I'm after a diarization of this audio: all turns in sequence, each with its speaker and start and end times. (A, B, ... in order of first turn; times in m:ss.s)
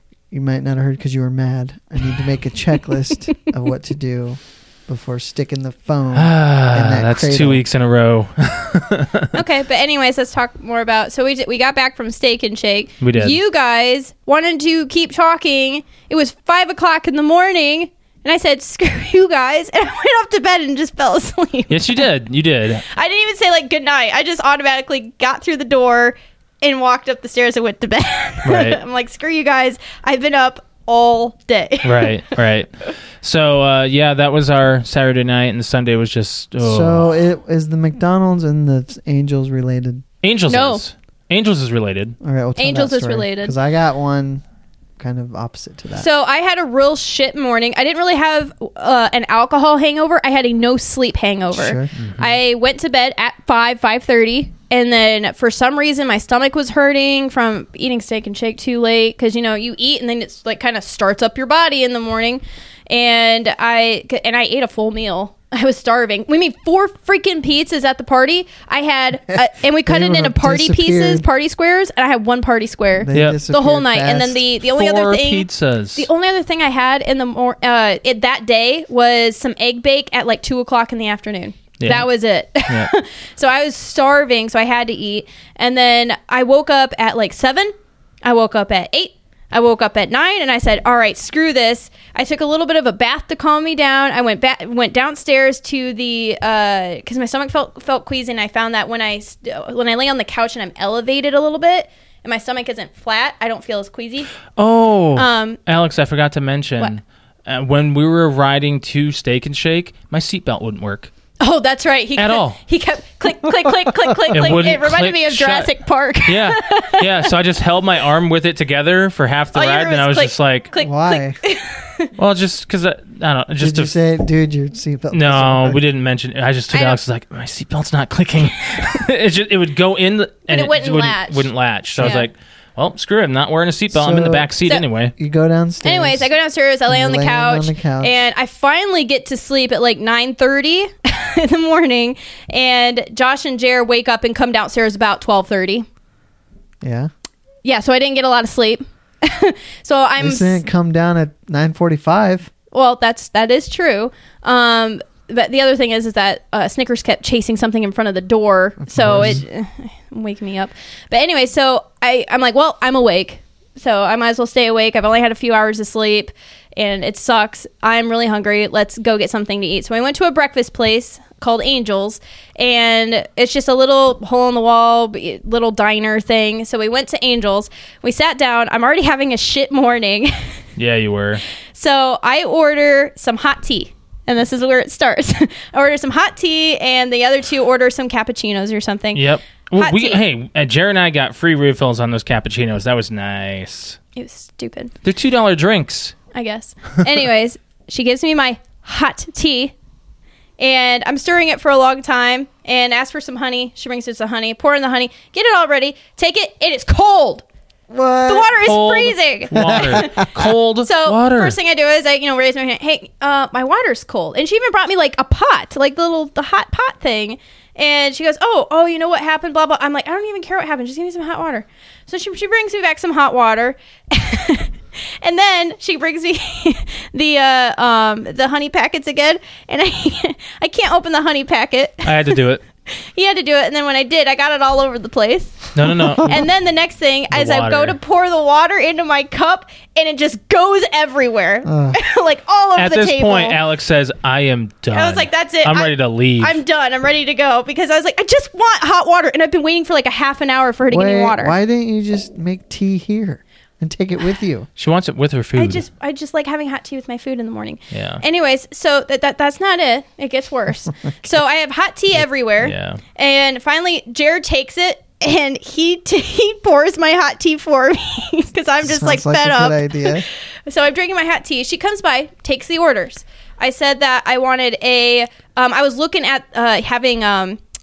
0:00.3-0:07.6 A
0:06.2-0:09.3 B
0:09.3-0:22.1 C
0:13.0-0:13.4 B
0:21.7-0:22.8 B
0:22.9-0:32.3 C
0:28.4-0:28.8 B
0:31.8-0:37.2 B
0:36.6-0:40.0 A
0:40.2-0:42.2 B
0:40.5-0:40.8 C
0:42.2-0:44.4 A
0:42.6-0:43.6 C
0:45.0-0:46.1 A
0:46.0-1:27.7 C
0:51.5-0:51.9 A
0:52.0-0:52.4 B
1:09.4-1:11.2 A
1:13.0-1:14.4 A
1:13.1-1:13.4 B
1:14.6-1:16.1 B
1:21.8-1:22.9 B
1:28.2-1:44.3 C
1:44.6-1:51.1 B
1:45.2-1:45.6 C
1:51.4-1:57.3 C
1:52.2-1:52.6 B
1:53.7-1:54.3 A
1:54.3-1:55.7 B
1:56.2-2:00.7 B
1:59.5-2:02.1 C
2:00.8-2:01.4 A
2:02.2-2:03.9 B
2:03.6-2:05.8 A
2:05.1-2:15.1 B
2:06.7-2:07.0 C
2:10.5-2:12.3 C
2:12.0-2:12.2 A
2:13.9-2:14.5 A
2:15.2-2:16.3 A
2:15.8-2:25.9 C
2:16.9-2:18.2 A
2:26.8-2:27.1 A
2:27.6-2:30.6 C
2:30.2-2:32.5 A
2:32.7-3:00.5 C
2:38.8-2:39.4 A
3:00.8-3:01.4 B
3:01.8-3:09.2 C
3:09.2-3:14.0 B
3:09.8-3:10.2 C
3:14.2-3:14.9 C
3:15.0-3:16.2 B
3:16.3-3:19.7 C
3:20.6-3:27.4 C
3:27.9-3:28.8 A
3:28.3-3:52.4 C
3:28.6-3:31.6 B
3:29.6-3:30.3 A
3:52.0-3:52.6 B
3:53.1-4:03.6 C
3:55.8-3:56.5 B
3:57.3-3:58.0 B
4:01.6-4:02.0 A
4:02.8-4:06.6 B
4:04.9-4:11.6 C
4:10.9-4:14.7 A
4:14.8-4:15.8 B
4:15.6-4:37.6 C
4:17.9-4:18.2 B
4:22.2-4:23.0 B
4:28.8-4:30.3 A